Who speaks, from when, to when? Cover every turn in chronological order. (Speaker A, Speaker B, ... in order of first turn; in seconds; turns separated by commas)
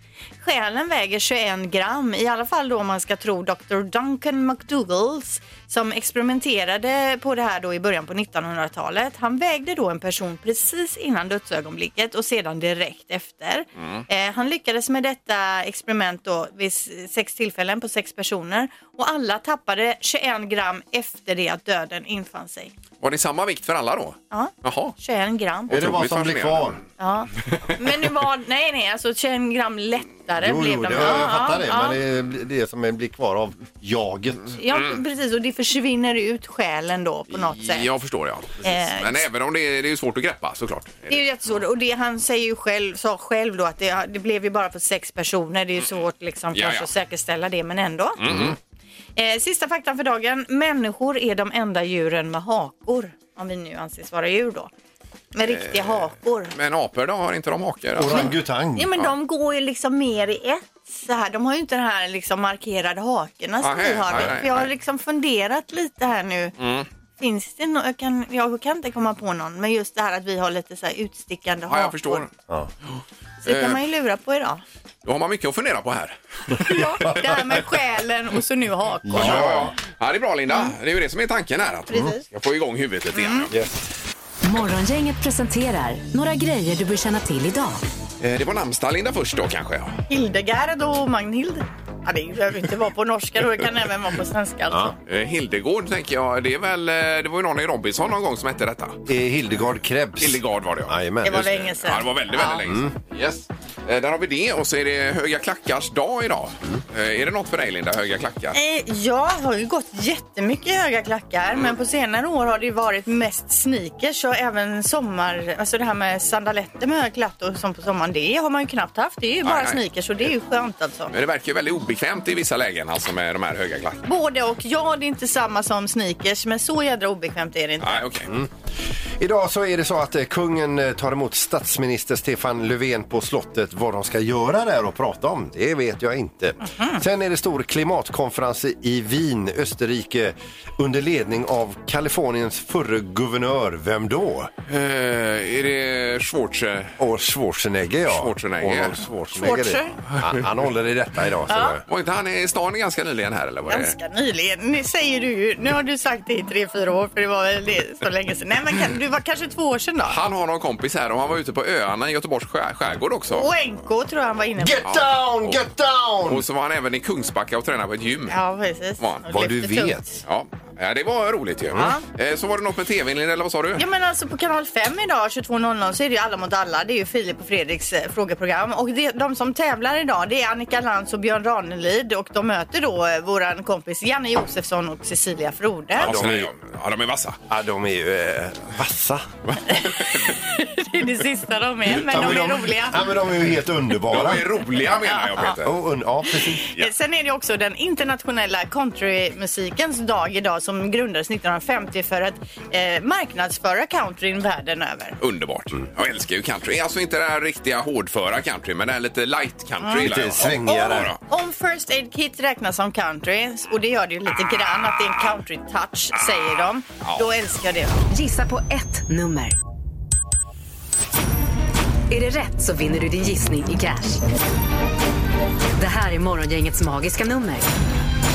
Speaker A: 0.4-22.7, Speaker B: 13.8-14.0, Speaker B: 23.0-24.9, Speaker A: 24.3-25.8, Speaker C: 25.7-26.8, Speaker B: 25.7-26.8, Speaker A: 27.0-32.0, Speaker C: 30.4-34.5, Speaker A: 34.5-37.9, Speaker B: 37.3-41.2, Speaker A: 38.6-39.2, Speaker A: 41.1-48.2, Speaker B: 46.5-46.9, Speaker B: 48.2-48.5, Speaker C: 48.2-48.5, Speaker A: 49.1-54.7, Speaker A: 55.3-56.5, Speaker B: 55.5-58.4, Speaker C: 58.0-58.9, Speaker A: 58.1-66.5, Speaker B: 63.6-64.7, Speaker B: 66.6-66.9, Speaker A: 67.2-72.2, Speaker B: 71.7-72.3, Speaker B: 72.9-73.8, Speaker A: 73.4-74.6, Speaker B: 75.0-77.1, Speaker A: 76.6-79.5, Speaker C: 79.1-79.7, Speaker B: 79.1-83.5, Speaker A: 81.9-82.2, Speaker A: 83.1-83.5, Speaker C: 83.5-83.8, Speaker D: 84.4-87.8, Speaker B: 88.2-90.0, Speaker A: 90.1-94.9, Speaker B: 95.1-99.0, Speaker C: 99.1-101.5, Speaker B: 100.2-108.5, Speaker A: 101.2-102.6, Speaker C: 102.6-102.9, Speaker A: 108.5-121.1, Speaker B: 119.4-119.8, Speaker B: 121.1-124.0, Speaker A: 124.0-128.1, Speaker B: 127.8-128.3, Speaker C: 129.2-144.5, Speaker A: 136.7-137.0, Speaker B: 144.7-146.9, Speaker C: 147.0-151.8, Speaker B: 148.1-149.0, Speaker A: 149.4-150.0, Speaker A: 151.5-151.8, Speaker B: 151.9-153.9, Speaker A: 153.7-160.2, Speaker B: 160.1-163.5, Speaker A: 163.3-164.8, Speaker C: 164.6-166.4, Speaker B: 164.8-165.6, Speaker B: 166.2-168.4, Speaker A: 168.3-170.2, Speaker B: 169.0-169.2, Speaker C: 169.3-170.0, Speaker B: 170.2-173.8, Speaker C: 171.7-171.9, Speaker A: 171.7-172.0, Speaker A: 173.8-186.1, Speaker B: 186.0-187.4, Speaker C: 186.0-186.5, Speaker C: 187.5-189.3, Speaker B: 189.5-190.4, Speaker A: 189.7-193.1, Speaker C: 191.9-194.4, Speaker B: 194.1-195.7, Speaker A: 194.9-195.6, Speaker C: 195.6-196.6, Speaker A: 196.3-205.2, Speaker B: 205.2-211.2, Speaker A: 209.8-218.0, Speaker C: 210.0-211.1, Speaker B: 216.3-217.2, Speaker D: 218.1-219.6, Speaker D: 222.1-224.2, Speaker D: 225.8-227.7